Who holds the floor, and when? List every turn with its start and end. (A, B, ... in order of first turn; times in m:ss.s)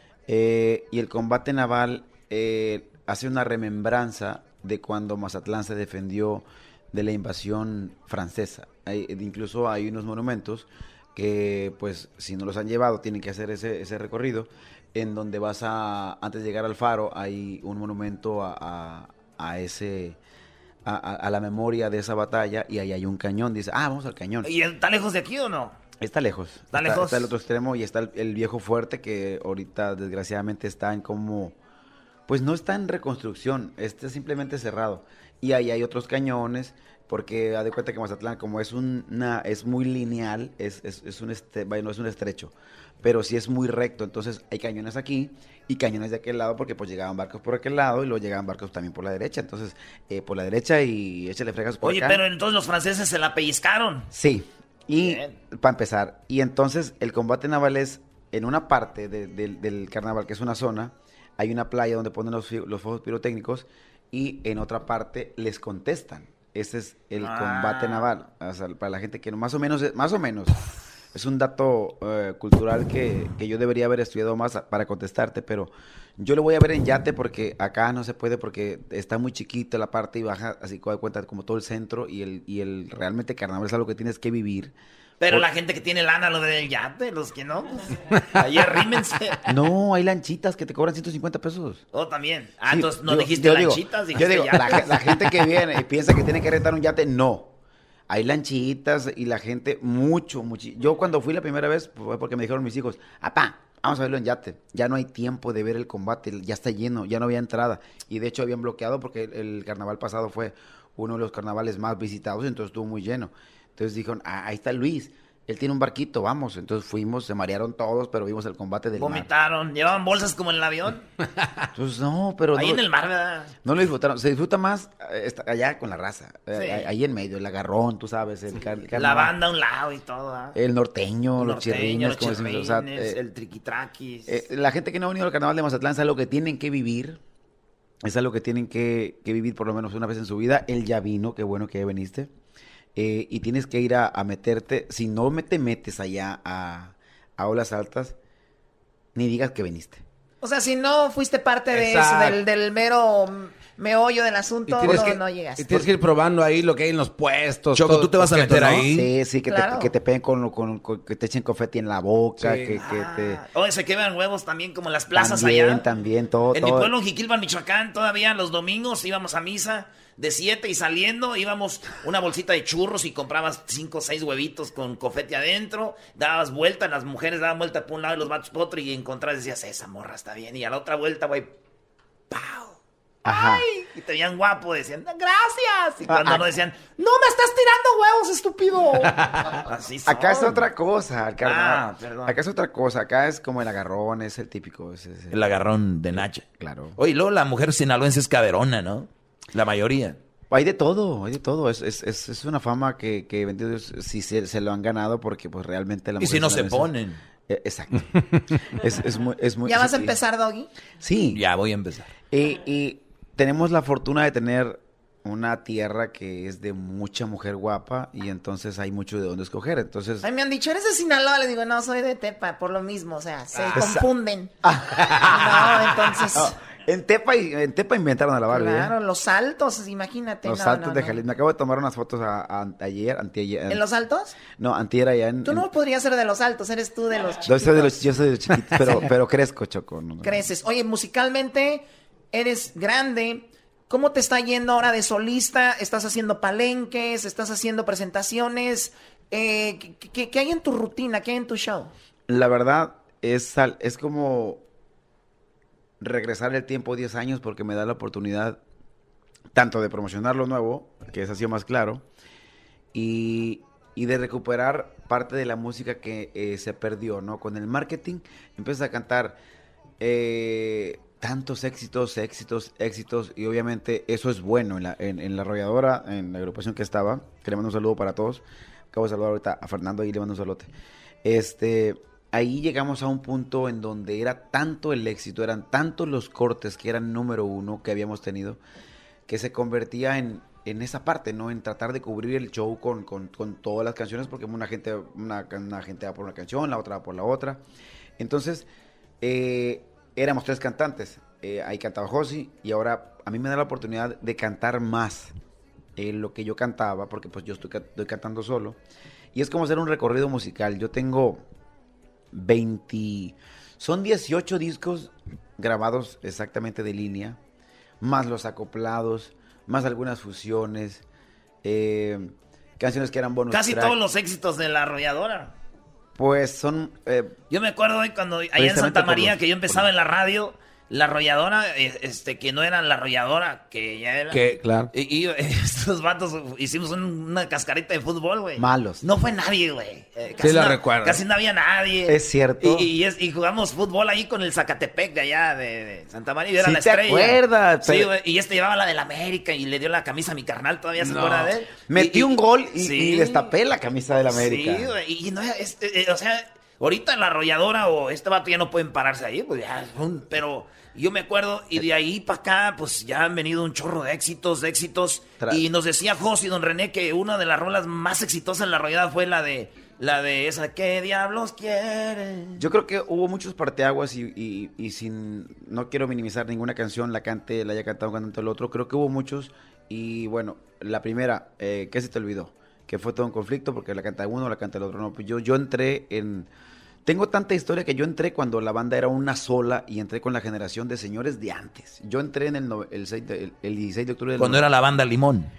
0:00.3-0:20.2 A
0:20.8-0:24.5 A
0:24.4-0:25.8 B
0:26.0-0:31.6 A
0:26.7-0:27.3 B
0:32.3-0:52.2 A
0:51.8-0:54.1 B
0:54.1-1:10.6 A
0:55.0-0:55.3 B
1:07.2-1:08.1 B
1:11.1-1:24.7 A
1:25.2-1:29.4 B
1:29.4-1:31.8 A
1:31.9-1:35.0 B
1:32.7-1:37.5 A
1:38.1-1:59.3 A
1:59.0-2:01.0 B
2:01.7-2:02.8 A
2:02.5-2:03.5 B
2:03.6-2:09.3 A
2:06.5-2:06.9 B
2:09.0-2:10.6 B
2:10.5-2:13.2 A
2:11.4-2:14.4 B
2:14.3-2:17.2 A
2:18.0-2:22.3 A
2:23.0-2:28.2 A
2:29.1-2:30.0 A
2:30.4-2:35.8 C
2:31.7-2:32.4 D
2:34.7-2:39.0 D
2:37.7-2:39.0 E
2:38.8-2:43.4 A
2:39.5-2:39.9 C
2:42.4-2:42.8 D
2:42.8-2:45.8 B
2:45.1-2:46.9 A
2:46.5-3:01.5 B
3:02.3-3:02.7 B
3:03.2-3:03.6 A
3:03.8-3:06.9 B
3:06.1-3:06.4 A
3:07.0-3:08.9 C
3:09.6-3:10.7 B
3:10.0-3:15.4 A
3:11.4-3:12.4 B
3:15.3-3:16.4 E
3:16.1-3:17.0 A
3:17.0-3:20.2 E
3:20.5-3:26.9 A
3:26.2-3:27.2 E
3:27.5-3:28.1 A
3:28.7-3:30.2 A
3:29.6-3:30.7 C
3:31.0-3:31.4 A
3:31.3-3:32.1 E
3:32.3-3:40.2 A
3:40.2-3:44.5 C
3:43.7-3:44.0 A
3:44.6-3:45.0 A
3:45.2-3:46.5 C
3:46.3-3:48.9 A
3:48.5-3:51.2 C
3:50.4-3:53.8 A
3:53.7-3:54.4 C
3:54.5-3:55.6 A
3:55.4-3:57.9 C
3:57.4-4:00.4 A
4:00.2-4:11.9 C
4:12.3-4:14.6 A
4:16.0-4:18.6 A
4:19.5-4:22.0 A
4:22.9-4:29.4 A
4:30.0-4:40.7 A
4:41.2-4:48.6 A
4:49.3-4:57.6 A
4:58.2-4:58.7 A
4:59.2-5:05.3 A
5:06.0-5:08.8 A
5:09.3-5:11.4 A
5:12.3-5:17.4 A
5:18.0-5:21.0 A
5:21.6-5:24.0 A
5:23.5-5:25.5 B
5:26.2-5:27.4 A
5:27.5-5:53.5 B
5:28.6-5:29.8 A
5:34.3-5:34.9 D
5:38.6-5:39.0 A
5:40.4-5:41.2 D
5:42.1-5:42.9 A
5:46.6-5:48.1 A
5:51.0-5:51.5 D
5:51.9-5:54.9 A
5:54.3-6:12.6 B
6:12.6-6:26.5 A
6:27.0-6:34.6 A
6:34.4-6:35.5 E